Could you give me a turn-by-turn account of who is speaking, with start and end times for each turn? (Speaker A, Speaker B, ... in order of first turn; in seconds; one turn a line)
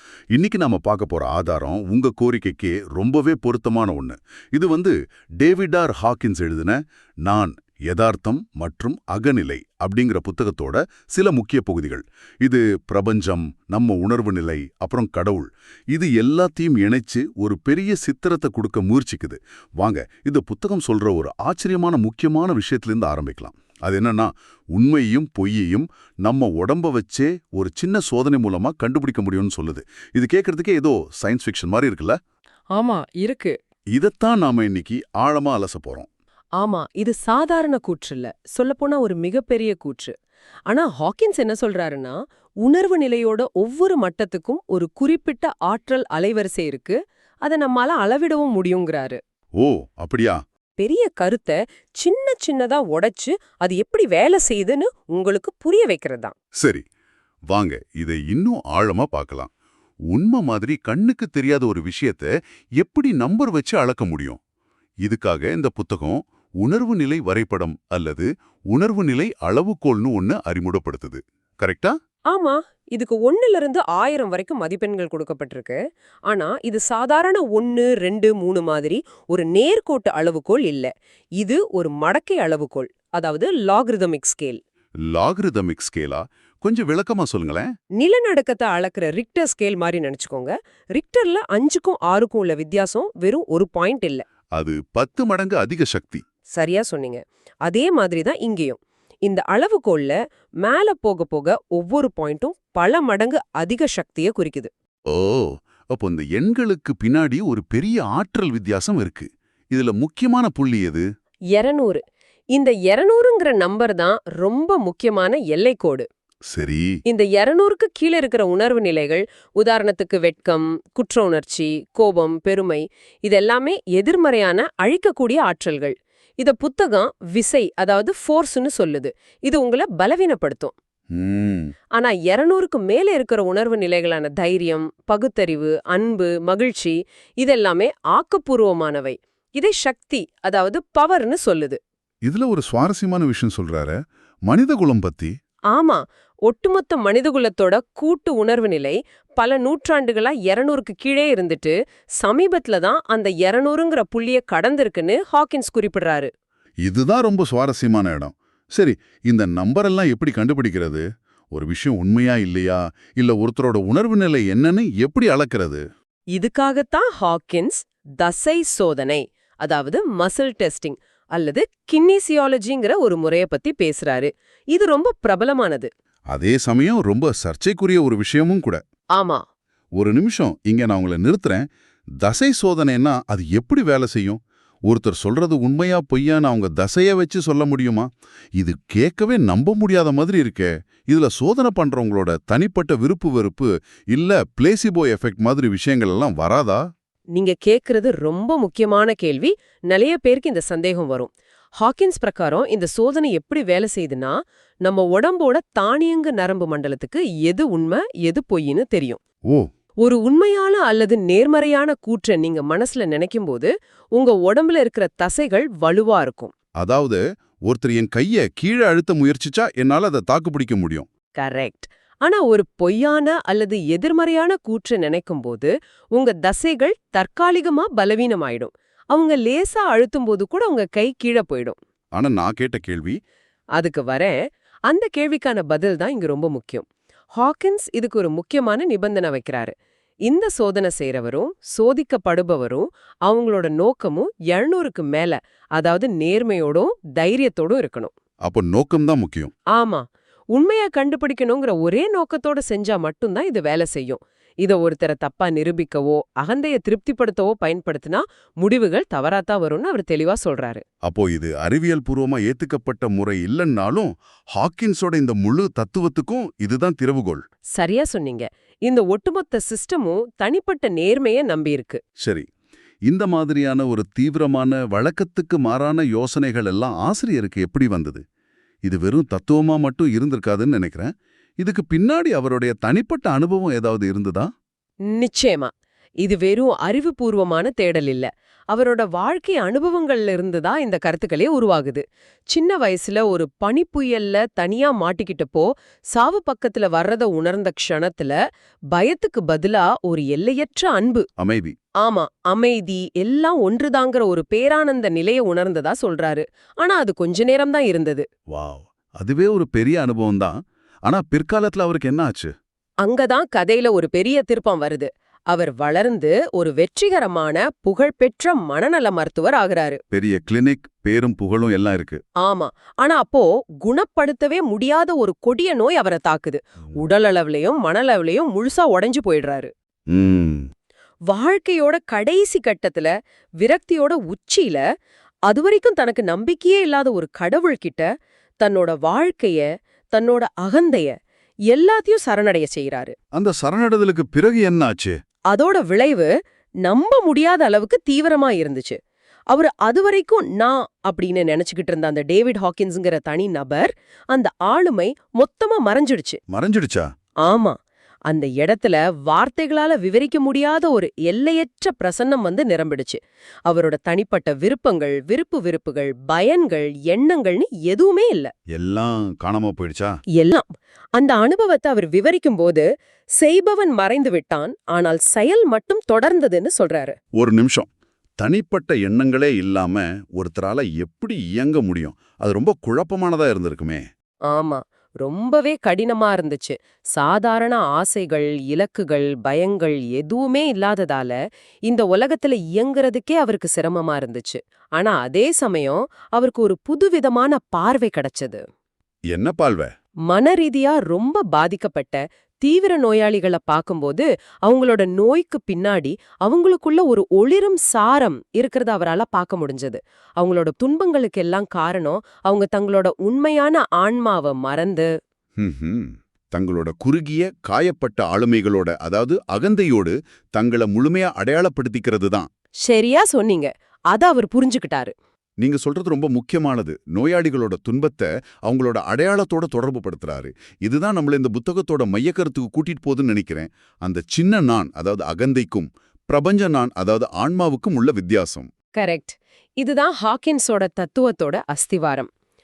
Speaker A: 0.3-32.2
Speaker B: 32.7-33.6
Speaker A: 34.0-36.1
Speaker B: 36.6-40.1
Speaker B: 40.7-49.2
Speaker A: 49.6-50.4
Speaker B: 50.8-56.4
Speaker A: 57.5-59.5
Speaker A: 60.1-64.4
Speaker A: 65.0-71.9
Speaker B: 72.3-84.6
Speaker A: 85.1-87.7
Speaker B: 88.0-94.2
Speaker A: 94.5-96.2
Speaker B: 96.5-104.7
Speaker A: 105.1-111.0
Speaker B: 111.5-112.0
Speaker B: 112.5-116.1
Speaker A: 116.5-116.9
Speaker B: 117.1-130.7
Speaker A: 131.2-131.7
Speaker B: 132.0-141.8
Speaker A: 142.3-144.0
Speaker A: 144.5-145.3
Speaker B: 145.7-156.3
Speaker A: 156.8-165.8
Speaker B: 166.3-175.9
Speaker A: 176.3-178.8
Speaker B: 179.2-179.4
Speaker A: 180.0-181.6
Speaker A: 182.2-196.8
Speaker B: 197.3-209.2
Speaker B: 210.0-216.5
Speaker A: 216.8-221.1
Speaker B: 221.4-231.8
Speaker A: 232.2-233.2
Speaker B: 233.8-234.4
Speaker B: 234.9-239.7
Speaker B: 240.3-248.1
Speaker A: 248.5-249.5
Speaker B: 249.7-260.8
Speaker A: 261.1-267.4
Speaker B: 267.8-272.0
Speaker A: 272.2-272.5
Speaker A: 273.1-278.2
Speaker A: 278.9-284.5
Speaker B: 285.1-285.7
Speaker B: 286.2-298.4
Speaker B: 298.9-301.2
Speaker A: 301.4-301.8
Speaker B: 302.0-308.3
Speaker A: 308.5-312.5
Speaker B: 313.0-320.0
Speaker A: 320.1-322.2
Speaker B: 322.4-329.7
Speaker A: 330.1-330.6
Speaker B: 331.3-334.8
Speaker B: 335.5-338.1
Speaker B: 338.6-341.1
Speaker B: 341.7-343.1
Speaker A: 343.4-345.2
Speaker B: 345.5-346.3
Speaker B: 346.8-349.0
Speaker B: 349.5-356.4
Speaker A: 356.5-357.1
Speaker B: 357.4-357.8
Speaker B: 358.3-368.5
Speaker A: 368.8-370.1
Speaker B: 370.4-372.9
Speaker B: 373.4-377.2
Speaker A: 377.4-377.9
Speaker A: 378.4-384.0
Speaker B: 384.5-398.6
Speaker A: 399.3-399.9
Speaker B: 400.3-415.1
Speaker A: 415.6-422.5
Speaker B: 422.8-425.1
Speaker A: 425.6-438.7
Speaker B: 439.0-442.3